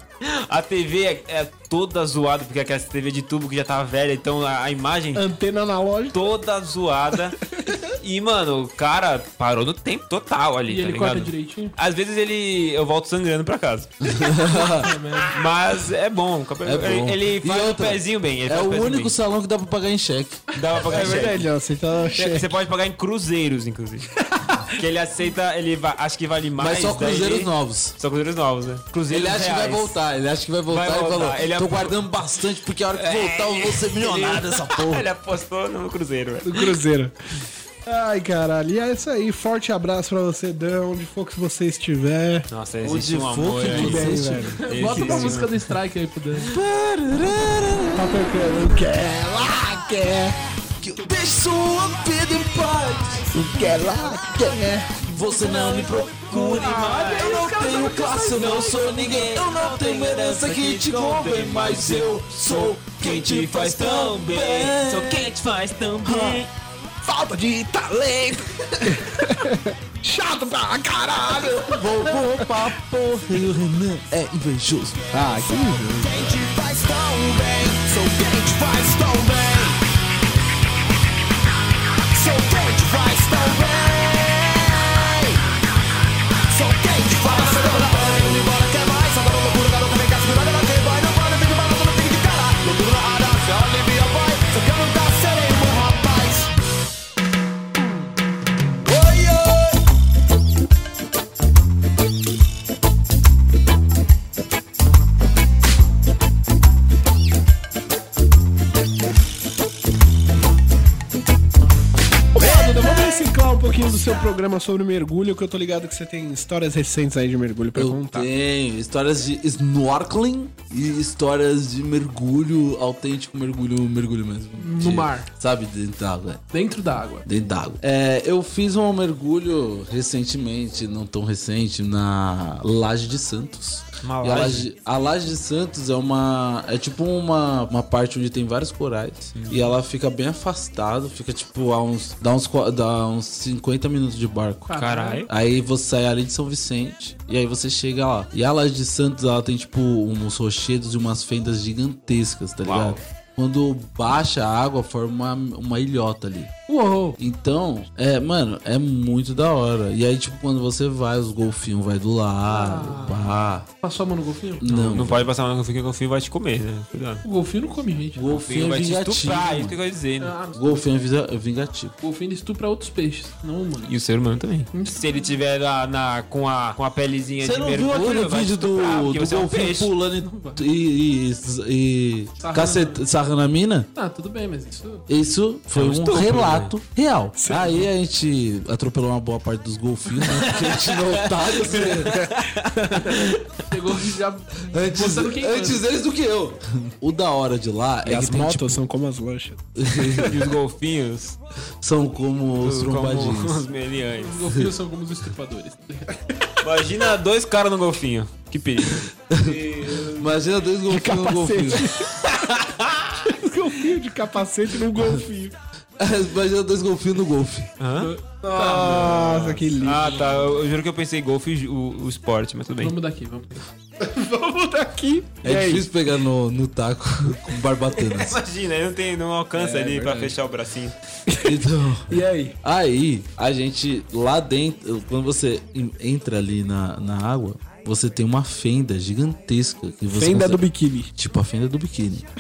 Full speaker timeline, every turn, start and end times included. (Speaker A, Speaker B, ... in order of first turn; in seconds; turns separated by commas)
Speaker A: 0.2-5.3, Speaker B: 5.1-6.3, Speaker A: 6.1-7.4, Speaker B: 7.5-7.9, Speaker A: 8.0-14.1, Speaker C: 10.7-11.8, Speaker D: 14.0-15.0, Speaker C: 14.5-15.5, Speaker A: 15.3-19.1, Speaker D: 16.6-20.4, Speaker A: 20.5-21.5, Speaker B: 20.9-22.5, Speaker A: 22.1-24.1, Speaker B: 24.4-24.8, Speaker A: 24.8-30.0, Speaker D: 26.6-28.0, Speaker D: 29.1-35.1, Speaker A: 30.7-32.0, Speaker A: 32.9-36.7, Speaker B: 36.4-37.1, Speaker B: 37.9-42.5, Speaker A: 42.5-45.6, Speaker D: 42.8-45.4, Speaker B: 43.7-45.3, Speaker C: 44.6-46.6, Speaker D: 46.4-48.6, Speaker B: 47.9-50.4, Speaker D: 50.8-53.9, Speaker B: 53.3-55.0, Speaker D: 55.0-65.3, Speaker A: 55.3-66.5, Speaker C: 56.3-58.7, Speaker B: 66.0-66.4, Speaker B: 67.0-72.7, Speaker D: 71.6-75.0, Speaker B: 75.1-76.4, Speaker E: 75.3-79.8, Speaker E: 82.1-85.4, Speaker E: 86.5-96.5, Speaker E: 98.9-99.8, Speaker B: 112.3-118.3, Speaker D: 117.7-126.4, Speaker C: 124.6-125.3, Speaker C: 126.5-127.3, Speaker D: 127.2-144.7, Speaker A: 134.0-134.7, Speaker A: 139.3-139.7, Speaker C: 144.7-145.3, Speaker A: 144.8-145.3, Speaker D: 145.3-156.5, Speaker A: 152.6-153.0, Speaker C: 156.7-157.2, Speaker D: 157.2-163.7, Speaker C: 162.5-164.7, Speaker D: 164.6-165.3, Speaker A: 164.7-167.2, Speaker C: 167.2-168.3, Speaker D: 168.2-169.8, Speaker A: 168.3-170.3, Speaker C: 170.2-170.9, Speaker D: 170.6-171.9, Speaker C: 172.0-173.9, Speaker A: 173.8-179.9, Speaker C: 174.7-175.3, Speaker D: 177.4-183.9, Speaker C: 180.2-180.7, Speaker C: 182.4-183.1, Speaker C: 183.9-185.1, Speaker D: 185.1-192.3, Speaker A: 185.7-186.7, Speaker B: 187.4-187.9, Speaker A: 190.3-193.4, Speaker B: 192.0-193.3, Speaker C: 193.7-195.8, Speaker D: 194.7-198.8, Speaker B: 198.0-200.3, Speaker D: 199.8-200.4, Speaker A: 200.2-201.4, Speaker D: 201.8-203.7, Speaker A: 202.6-204.5, Speaker C: 204.2-206.1, Speaker A: 206.6-210.3, Speaker D: 209.3-212.1, Speaker B: 210.9-212.3, Speaker A: 212.5-213.3, Speaker B: 213.3-215.5, Speaker D: 216.0-217.7, Speaker A: 217.8-222.9, Speaker C: 218.0-219.3, Speaker B: 218.3-220.6, Speaker C: 222.8-223.6, Speaker B: 224.0-225.9, Speaker D: 225.4-228.4, Speaker A: 228.1-230.9, Speaker B: 229.6-230.3, Speaker B: 231.3-232.6, Speaker D: 231.4-242.3, Speaker B: 240.1-241.1